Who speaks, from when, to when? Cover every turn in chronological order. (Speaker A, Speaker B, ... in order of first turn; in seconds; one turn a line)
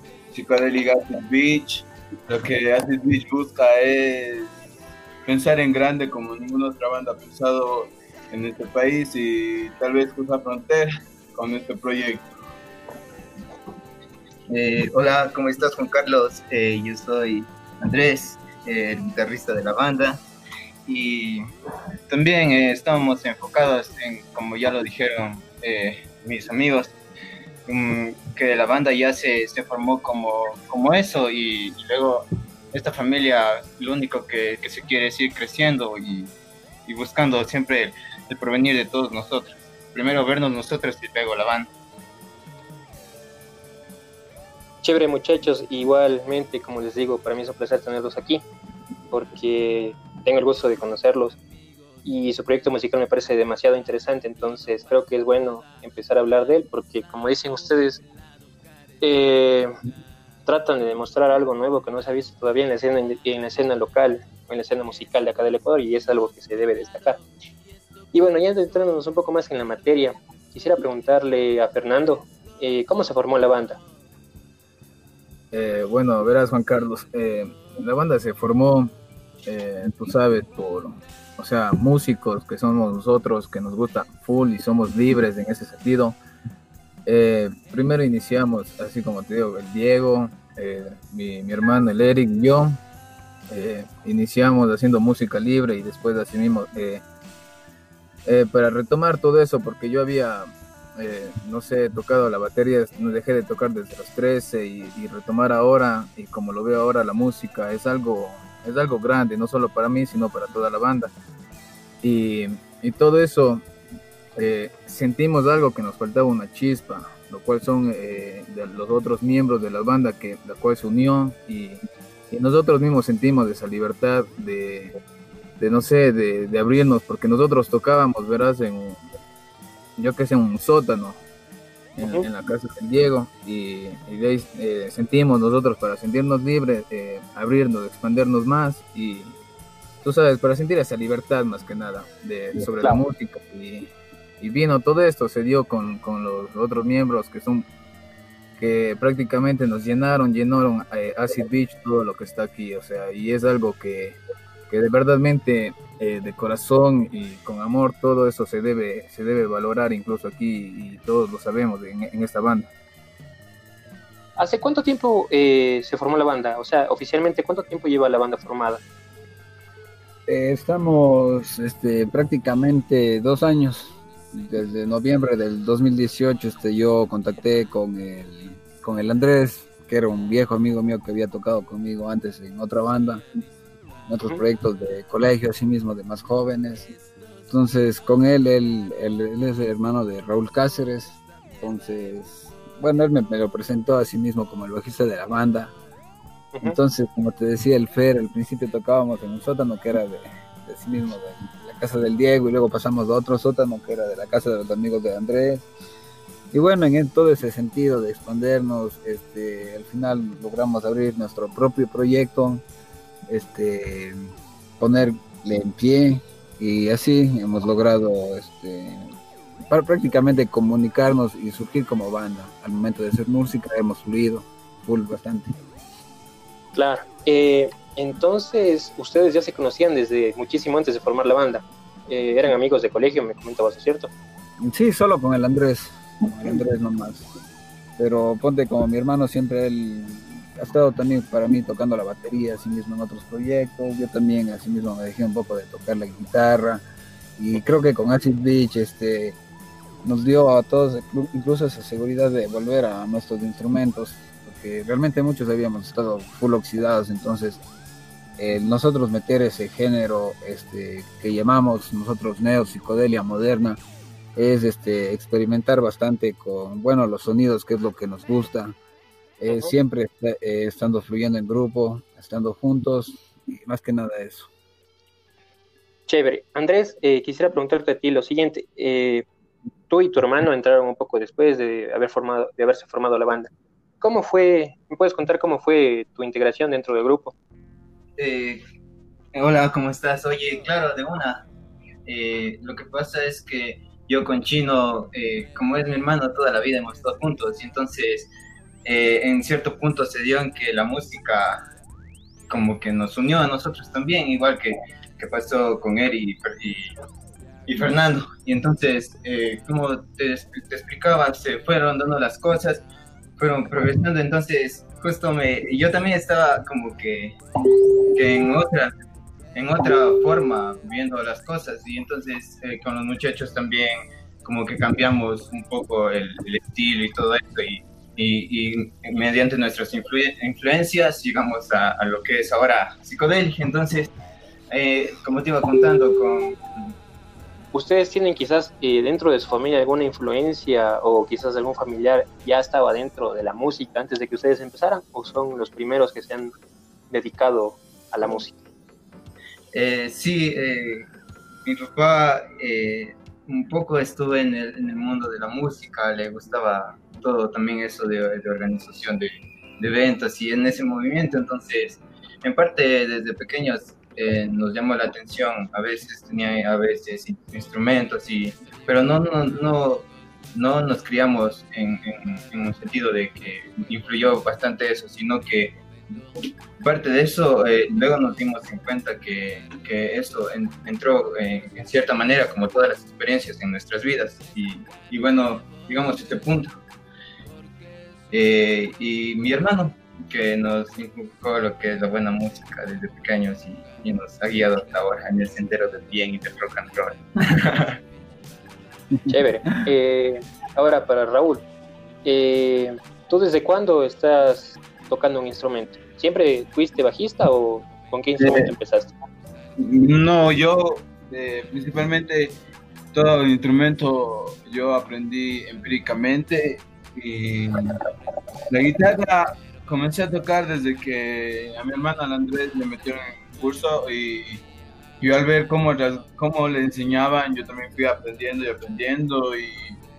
Speaker A: 0.3-4.6
Speaker A: 5.3-12.3
Speaker B: 14.5-20.2
Speaker B: 20.9-21.5
Speaker B: 22.1-26.9
Speaker B: 27.7-36.3
Speaker B: 36.9-41.7
Speaker C: 44.8-48.4
Speaker C: 49.1-51.4
Speaker C: 52.0-58.0
Speaker C: 59.0-59.7
Speaker C: 60.5-67.2
Speaker C: 68.1-73.8
Speaker D: 75.5-78.9
Speaker D: 79.5-86.2
Speaker D: 87.1-92.8
Speaker D: 93.5-97.0
Speaker D: 98.3-111.2
Speaker D: 112.0-113.6
Speaker D: 114.4-125.0
Speaker D: 125.6-129.0
Speaker D: 130.0-131.2
Speaker D: 131.9-139.4
Speaker C: 132.0-132.3
Speaker D: 140.0-147.7
Speaker D: 148.6-162.7
Speaker C: 164.4-168.8
Speaker E: 170.3-183.2
Speaker E: 184.1-186.9
Speaker E: 187.5-195.7
Speaker E: 196.6-205.7
Speaker E: 206.5-212.7
Speaker E: 213.3-219.1
Speaker E: 219.7-225.6
Speaker C: 226.7-234.1
Speaker E: 234.6-237.3
Speaker E: 238.0-246.8
Speaker E: 247.4-249.4
Speaker E: 250.0-257.6
Speaker E: 258.4-263.8
Speaker E: 264.4-268.8
Speaker E: 269.4-274.5
Speaker C: 269.5-269.7
Speaker C: 276.1-279.2
Speaker C: 279.9-283.5
Speaker C: 284.0-287.3
Speaker B: 288.2-288.6
Speaker B: 289.3-291.4
Speaker B: 292.1-298.3
Speaker B: 298.9-301.6
Speaker B: 302.5-306.9
Speaker B: 307.7-312.8
Speaker B: 313.4-317.4
Speaker B: 318.1-318.9
Speaker B: 319.5-334.1
Speaker B: 334.7-336.7
Speaker C: 337.7-346.5
Speaker C: 347.1-348.6
Speaker B: 349.7-351.1
Speaker B: 351.6-375.8
Speaker B: 376.8-386.8
Speaker B: 388.3-397.9
Speaker C: 399.3-401.6
Speaker C: 402.2-409.1
Speaker A: 408.4-408.7
Speaker A: 409.8-412.6
Speaker A: 413.1-418.0
Speaker A: 418.7-424.6
Speaker A: 425.2-430.0